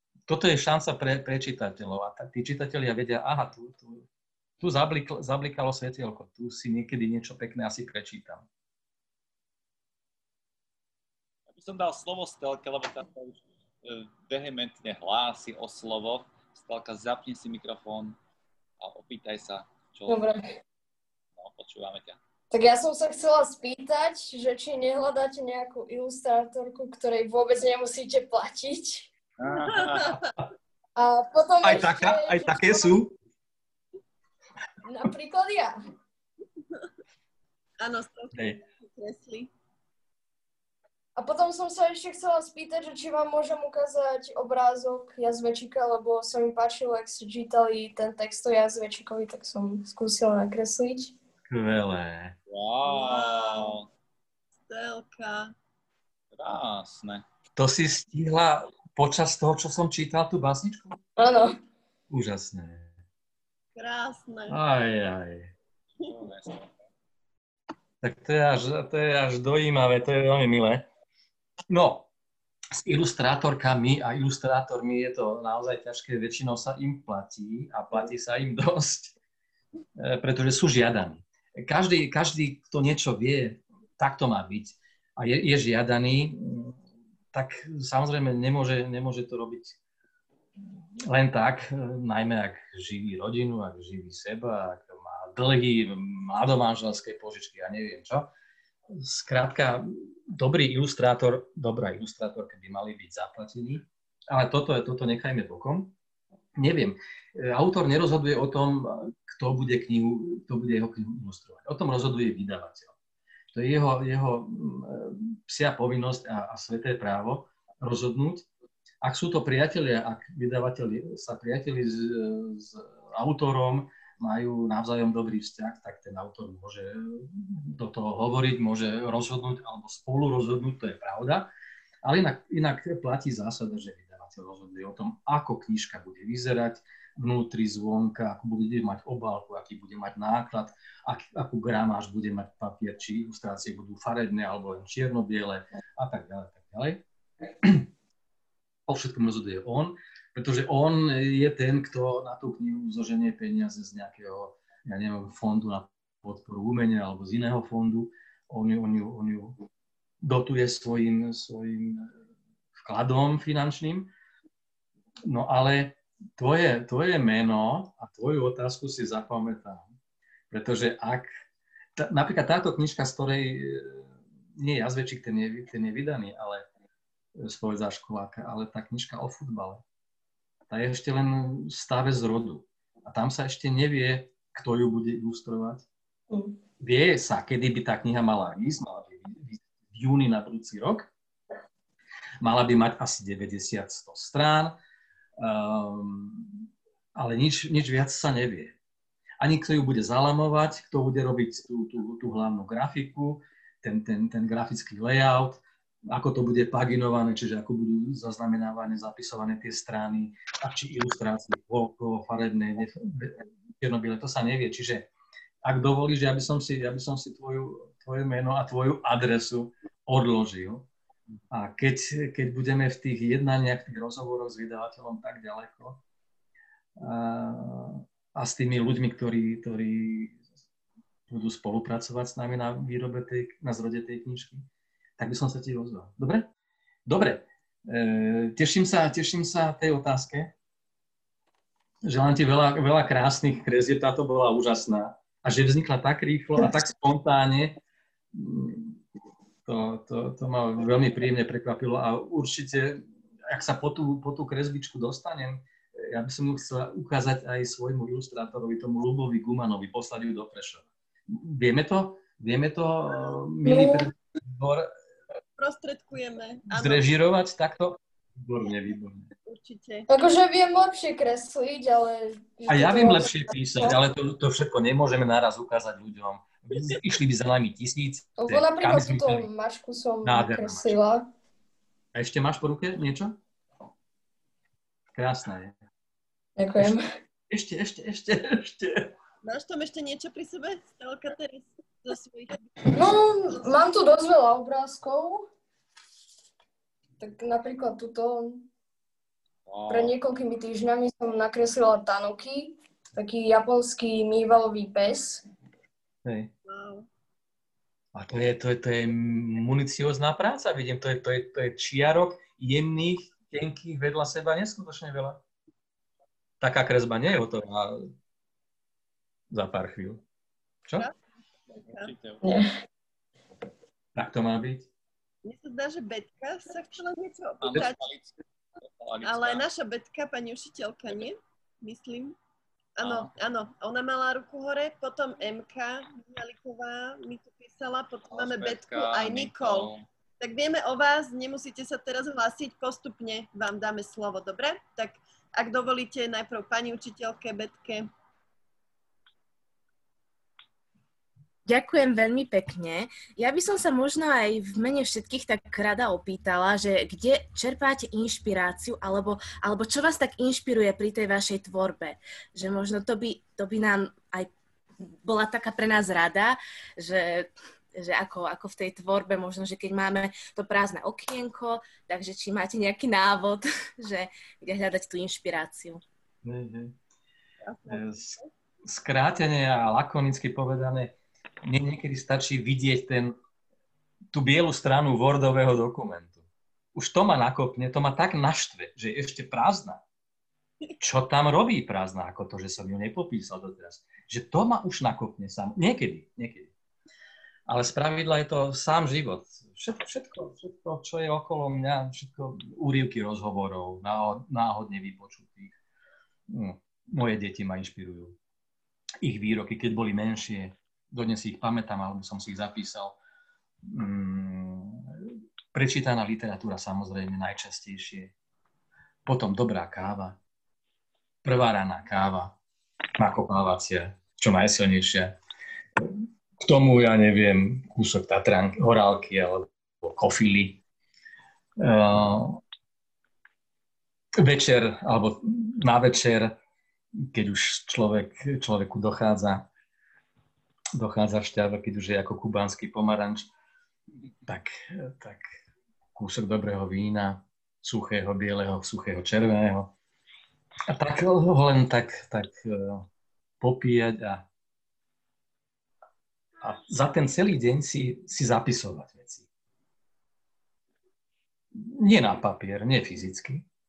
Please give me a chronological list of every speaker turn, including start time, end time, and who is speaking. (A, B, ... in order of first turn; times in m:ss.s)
0:00.3-0:04.1 A
0:04.6-0:08.5 A
0:11.5-0:18.2 B
0:18.8-0:20.4 B
0:20.1-0:20.6 C
0:21.4-0:22.2 B
0:22.5-0:29.1 C
0:29.4-0:30.2 B
0:29.7-0:30.3 D
0:31.0-0:32.9 C
0:31.6-0:33.1 A
0:34.8-0:35.8 C
0:37.8-0:39.5 D
0:38.3-0:38.6 A
0:41.2-0:51.1 C
0:51.5-0:52.4 A
0:52.5-0:53.9 B
0:52.9-0:53.8 D
0:54.7-0:55.5 D
0:56.3-0:57.2 B
0:57.6-1:01.0 A
1:01.2-1:01.6 C
1:02.1-1:02.9 A
1:03.8-1:04.6 D
1:04.5-1:05.5 A
1:06.0-1:06.7 B
1:08.0-1:10.8 A
1:11.7-1:12.1 A
1:12.7-1:19.2 A
1:20.0-1:26.8 A
1:27.3-1:29.8 A
1:31.1-1:38.3 A
1:38.9-1:45.9 A
1:46.6-1:52.9 A
1:53.5-1:58.5 A
1:59.0-2:11.5 A
2:12.0-2:27.0 A
2:27.6-2:27.9 A
2:28.9-2:39.6 A
2:40.2-2:42.1 A
2:42.8-2:44.1 A
2:45.2-2:49.8 A
2:50.5-2:51.3 A
2:52.0-2:56.7 A
2:57.4-2:59.8 A
3:00.7-3:05.9 A
3:06.8-3:11.1 A
3:12.4-3:14.8 A
3:15.4-3:18.8 A
3:19.4-3:35.1 A
3:35.6-3:40.9 A
3:41.5-3:46.0 A
3:47.0-3:50.4 A
3:51.3-3:54.7 A
3:55.2-3:56.5 A
3:57.1-4:00.5 A
4:02.0-4:07.8 A
4:08.3-4:09.0 A
4:09.6-4:24.9 A
4:23.7-4:24.1 C
4:25.6-4:27.0 D
4:26.7-4:29.3 A
4:29.5-4:30.1 D
4:30.1-4:34.0 C
4:32.7-4:39.5 A
4:38.4-4:41.3 C
4:40.2-4:41.0 A
4:42.1-4:43.4 A
4:45.1-4:45.8 A
4:46.6-4:47.0 C
4:47.5-4:49.1 A
4:49.4-4:53.8 D
4:52.9-4:55.5 C
4:57.2-4:58.7 C
4:59.7-5:00.2 B
4:59.9-5:05.4 C
5:06.2-5:06.5 A
5:06.7-5:07.1 D
5:08.1-5:15.4 A
5:16.6-5:18.1 A
5:19.5-5:20.2 A
5:21.7-5:22.7 B
5:21.8-5:22.1 D
5:22.4-5:22.7 C
5:24.2-5:24.9 A
5:25.4-5:28.0 D
5:27.6-5:28.3 B
5:28.8-5:29.6 B
5:29.2-5:32.4 D
5:33.0-5:48.1 D
5:33.0-5:33.3 B
5:38.3-5:40.1 B
5:51.7-6:04.5 E
6:05.0-6:16.0 E
6:16.4-6:17.0 A
6:17.6-6:18.5 D
6:17.9-6:23.4 A
6:24.3-6:30.0 A
6:31.0-6:36.7 A
6:37.7-6:45.8 A
6:46.5-6:48.4 A
6:49.2-6:53.2 A
6:53.8-6:58.3 A
6:59.2-7:00.4 A
7:01.4-7:02.6 A
7:03.2-7:05.4 A
7:06.0-7:10.8 A
7:11.8-7:12.6 A
7:14.4-7:16.6 A
7:17.2-7:19.7 A
7:21.0-7:23.5 A
7:24.5-7:25.4 A
7:26.2-7:29.9 A
7:30.9-7:33.1 A
7:33.6-7:34.5 A
7:36.6-7:39.5 A
7:41.7-7:43.7 A